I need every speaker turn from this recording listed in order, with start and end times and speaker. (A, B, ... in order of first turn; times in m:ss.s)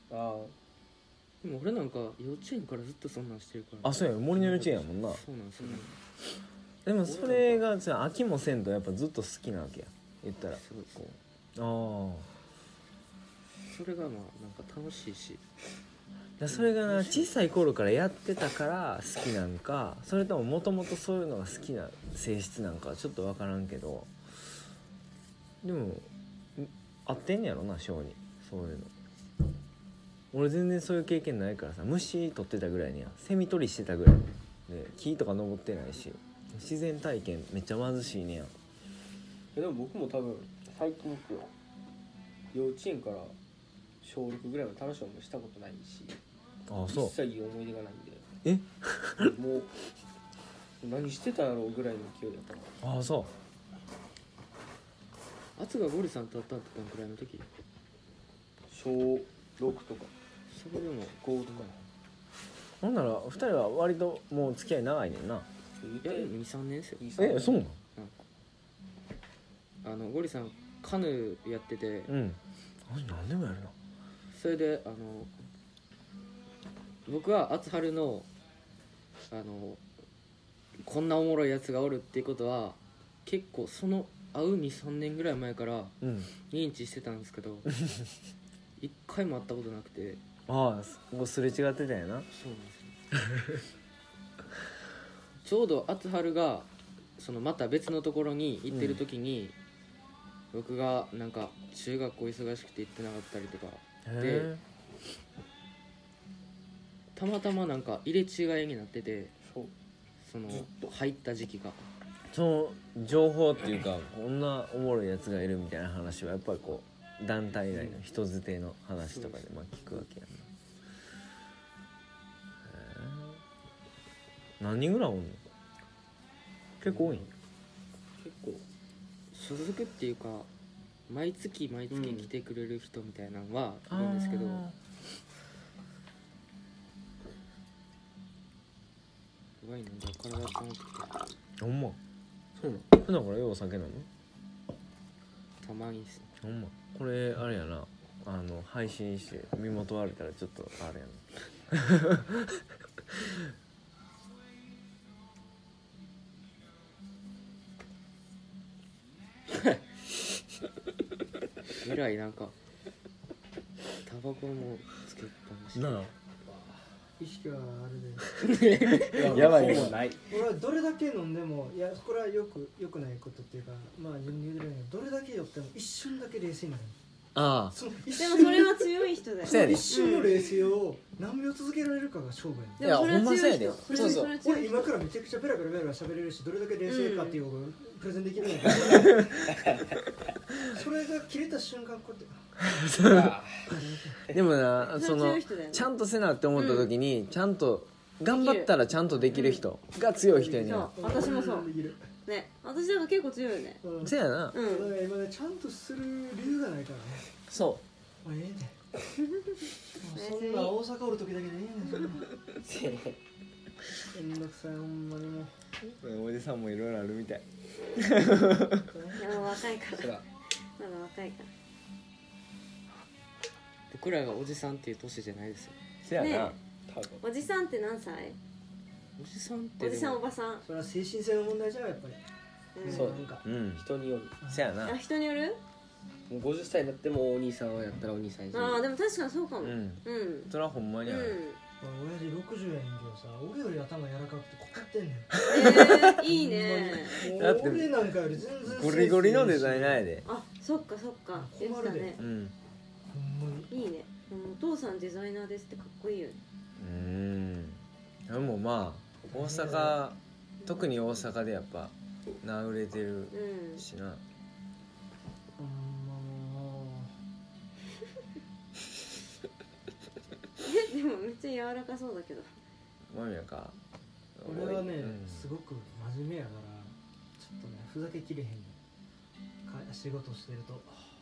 0:00.1-0:00.5 A
0:01.4-0:06.0 B
0:03.8-0:05.2 C
0:05.6-0:05.9 A
0:06.9-0:12.3 C
0:07.1-0:07.6 A
0:10.5-0:11.1 B
0:13.7-0:15.4 B
0:16.4-0:24.1 C
0:16.5-0:17.0 B
0:25.6-0:28.9 C
0:30.3-0:38.5 C
0:39.6-0:41.5 A
0:42.5-0:43.3 A
0:44.0-0:46.2 A
0:46.7-0:47.1 C
0:46.9-0:48.2 A
0:48.4-0:49.3 C
0:49.2-0:49.7 A
0:50.8-0:52.7 A
0:52.8-0:53.3 C
0:55.6-0:57.4 B
0:58.7-1:00.1 A
1:00.5-1:01.7 B
1:01.2-1:01.8 A
1:02.8-1:05.5 C
1:05.8-1:06.3 A
1:06.0-1:07.1 B
1:07.0-1:07.6 A
1:07.2-1:07.8 C
1:09.8-1:12.1 B
1:12.1-1:13.7 C
1:14.3-1:15.3 B
1:17.1-1:18.3 B
1:19.3-1:19.8 B
1:20.8-1:25.9 B
1:26.0-1:26.3 C
1:26.5-1:27.7 B
1:28.8-1:30.2 B
1:30.5-1:32.3 C
1:32.3-1:32.9 B
1:33.3-1:33.6 C
1:35.4-1:39.6 B
1:38.7-1:39.0 C
1:40.5-1:44.5 B
1:44.0-1:44.6 C
1:47.2-1:49.3 B
1:49.4-1:49.7 A
1:50.2-1:51.8 B
1:50.5-1:50.8 A
1:52.3-2:00.5 C
1:57.7-1:58.0 A
1:59.1-1:59.4 B
2:02.6-2:03.4 C
2:04.6-2:05.4 C
2:06.8-2:07.3 C
2:06.8-2:07.3 A
2:08.2-2:08.6 A
2:09.3-2:10.5 B
2:11.1-2:14.6 B
2:11.9-2:12.3 A
2:13.9-2:14.8 C
2:19.6-2:21.2 B
2:21.6-2:22.0 C
2:22.6-2:22.9 A
2:23.0-2:24.1 C
2:25.6-2:26.3 B
2:26.4-2:33.5 C
2:41.8-2:42.5 B
2:44.0-2:46.1 B
2:45.8-2:46.1 C
2:47.2-2:48.4 D
2:48.4-2:49.9 B
2:48.8-2:50.0 C
2:49.1-2:50.2 A
2:49.3-2:49.7 D
2:50.3-2:57.0 D
2:57.3-2:57.8 C
2:57.7-3:02.9 D
2:58.1-3:00.6 E
2:59.4-2:59.9 C
3:02.8-3:05.0 E
3:02.8-3:04.3 C
3:03.9-3:09.6 D
3:06.8-3:07.4 E
3:10.6-3:12.5 D
3:12.6-3:13.4 C
3:13.0-3:13.8 A
3:13.7-3:14.2 D
3:14.3-3:20.9 C
3:14.8-3:15.9 E
3:16.6-3:16.9 E
3:18.3-3:18.7 E
3:19.3-3:19.6 E
3:20.3-3:22.1 D
3:20.6-3:21.7 E
3:22.2-3:23.8 E
3:23.8-3:27.3 D
3:24.0-3:24.6 C
3:24.5-3:24.9 E
3:27.5-3:27.8 C
3:28.2-3:28.8 D
3:30.0-3:32.3 D
3:30.1-3:30.8 E
3:32.6-3:33.2 A
3:34.1-3:35.5 D
3:36.0-3:37.4 C
3:37.9-3:38.9 C
3:38.9-3:39.5 D
3:39.2-3:40.2 E
3:39.9-3:40.2 A
3:40.8-3:41.5 E
3:43.9-3:45.7 B
3:46.0-3:46.6 C
3:46.2-3:46.6 E
3:46.9-3:47.2 A
3:47.2-3:48.4 E
3:49.2-3:50.2 B
3:49.8-3:50.6 E
3:50.6-3:52.2 D
3:52.8-3:53.2 E
3:52.8-3:53.4 D
3:52.9-3:53.2 A
3:53.4-3:53.8 C
3:53.8-3:54.4 A
3:54.4-3:54.7 D
3:54.5-3:55.0 C
3:54.8-3:55.6 E
3:56.3-3:58.8 A
3:58.5-4:00.5 E
3:59.6-4:01.4 C
4:01.0-4:01.6 E
4:01.8-4:10.1 D
4:05.4-4:07.2 E
4:05.4-4:06.2 C
4:07.2-4:08.0 C
4:08.6-4:10.2 C
4:10.2-4:12.2 E
4:11.4-4:12.2 D
4:12.2-4:12.6 C
4:13.1-4:13.7 D
4:13.7-4:16.4 E
4:16.8-4:24.2 C
4:19.3-4:20.0 D
4:23.3-4:23.8 E
4:25.6-4:27.1 D
4:30.6-4:32.5 E
4:33.1-4:33.8 C
4:34.4-4:35.5 C
4:34.4-4:38.8 D
4:39.7-4:41.0 D